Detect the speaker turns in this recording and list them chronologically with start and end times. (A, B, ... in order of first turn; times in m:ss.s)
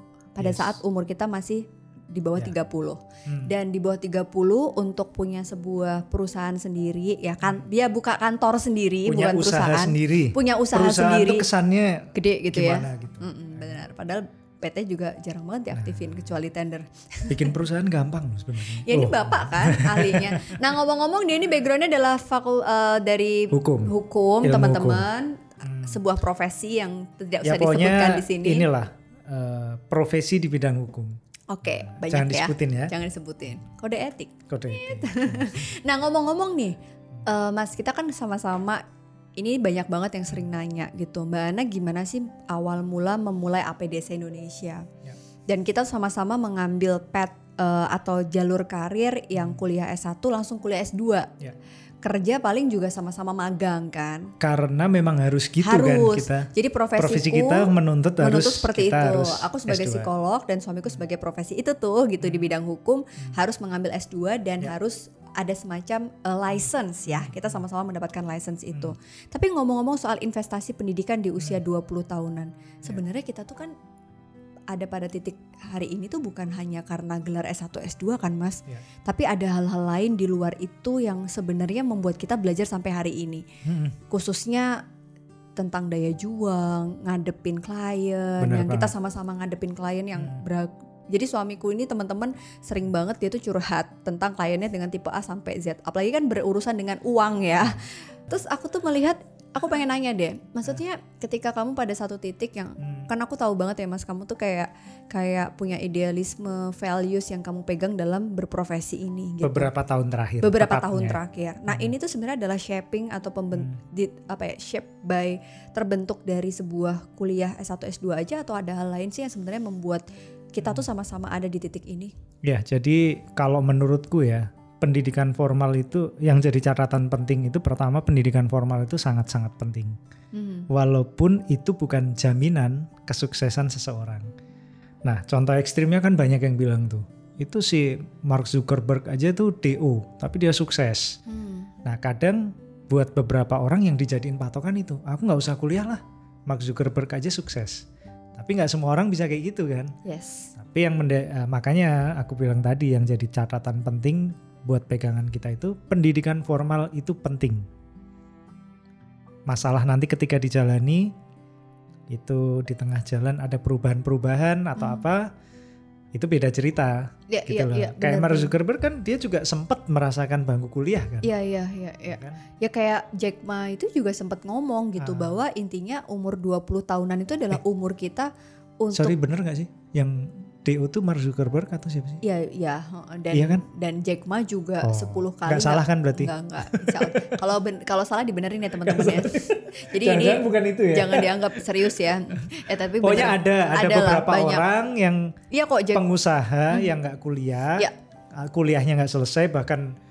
0:00.4-0:11.5 A
0:00.4-0:00.8 B
0:03.2-0:03.5 B
0:09.0-0:13.8 B
0:12.1-0:17.5 A
0:15.7-0:16.4 B
0:17.3-0:20.6 B
0:18.7-0:28.7 A
0:23.5-0:23.9 B
0:24.4-0:25.1 B
0:25.6-0:26.0 B
0:27.4-0:32.9 B
0:31.5-0:38.8 A
0:34.5-0:35.7 B
0:39.4-0:44.9 A
0:45.5-0:51.3 A
0:49.4-0:49.6 B
0:52.0-0:54.3 A
0:54.4-1:00.1 B
0:55.6-1:13.7 A
1:02.2-1:02.5 B
1:07.1-1:07.6 B
1:14.7-1:23.4 A
1:23.6-1:24.0 B
1:24.1-1:24.8 A
1:25.6-1:49.7 A
1:28.4-1:28.9 B
1:30.2-1:30.4 B
1:42.8-1:43.1 B
1:49.4-1:51.9 B
1:50.4-2:02.1 A
2:02.4-2:10.0 B
2:10.3-2:10.7 A
2:10.7-2:14.3 B
2:15.0-2:21.2 B
2:21.3-2:21.7 A
2:21.8-2:29.9 B
2:30.0-2:30.5 A
2:30.6-2:37.7 B
2:39.5-2:41.1 B
2:42.1-2:45.3 B
2:44.8-2:45.1 A
2:46.1-2:51.3 B
2:47.3-2:48.5 A
2:51.2-2:58.3 A
2:52.1-2:52.4 B
2:55.0-2:55.4 B
2:58.8-2:59.2 A
2:58.9-3:02.2 B
3:02.2-3:14.6 A
3:03.3-3:03.6 B
3:04.8-3:07.4 B
3:08.8-3:11.7 B
3:13.0-3:15.3 B
3:15.5-3:16.0 A
3:15.9-3:19.9 B